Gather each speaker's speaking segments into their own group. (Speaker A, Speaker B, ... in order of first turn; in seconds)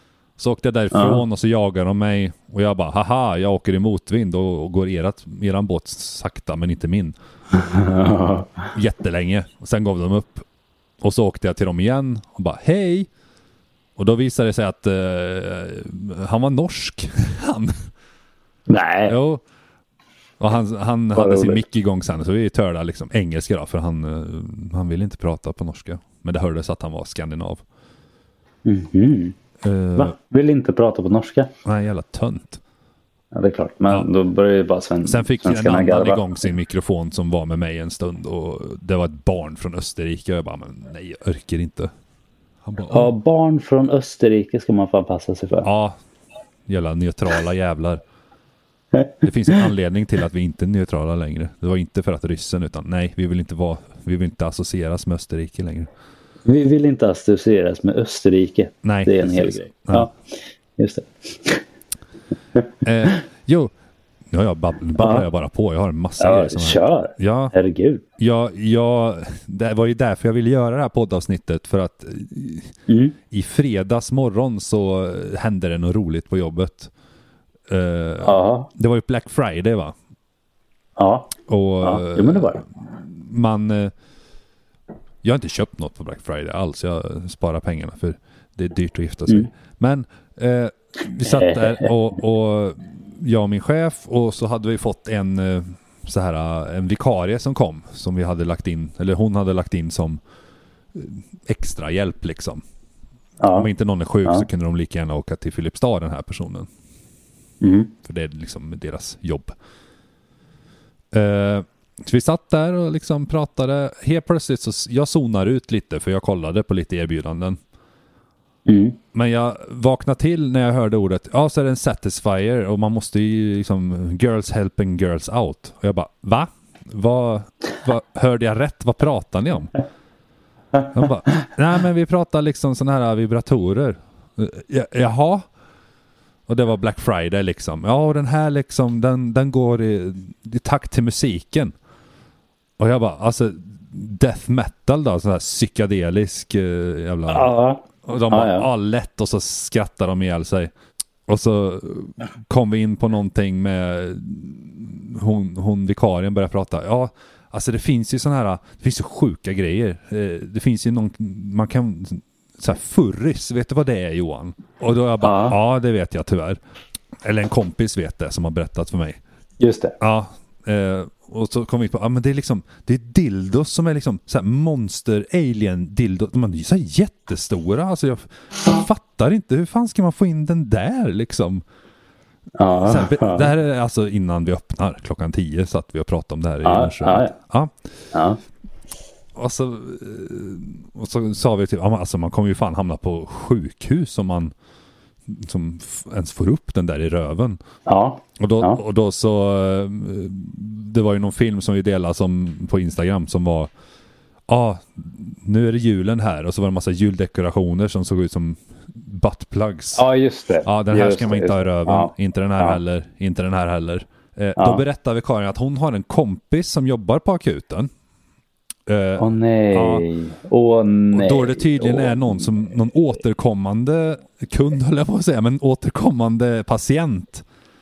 Speaker A: 0.4-7.1, 8.7-10.4, 11.0-13.1, 14.0-17.9, 19.1-19.4, 20.4-27.6, 29.6-30.1, 31.6-32.6, 35.0-41.9, 42.6-43.1, 45.6-45.9, 46.7-48.0, 49.2-55.9, 58.8-60.1, 62.8-63.7, 64.3-67.5, 68.2-72.8, 73.3-76.9, 77.7-79.9, 81.5-83.9, 85.2-100.2, 100.9-102.6, 103.5-106.7, 108.0-109.5, 111.1-117.6, 119.1-129.7, 130.9-135.4, 136.5-141.7, 142.8-150.7, 151.3-166.6, 167.2-169.2, 170.0-181.6, 182.8-187.7, 189.3-194.5, 195.3-197.6, 198.4-203.7, 204.5-210.0, 210.6-217.9, 218.9-220.0, 221.1-227.4
Speaker B: 0.9-1.2, 7.5-8.7, 18.7-19.1, 21.1-21.6, 28.6-29.4, 29.9-31.5, 33.3-36.2, 42.9-45.7, 56.4-61.6, 65.0-65.2, 66.2-68.0, 72.9-73.2, 78.2-78.7, 81.0-82.6, 91.2-91.9, 103.4-103.7, 107.6-107.9, 118.7-119.0, 147.3-148.7, 165.2-165.6, 169.6-169.9, 182.6-183.5, 186.6-187.3, 188.1-188.4, 197.8-198.8, 209.9-212.8, 214.6-214.8, 219.2-222.5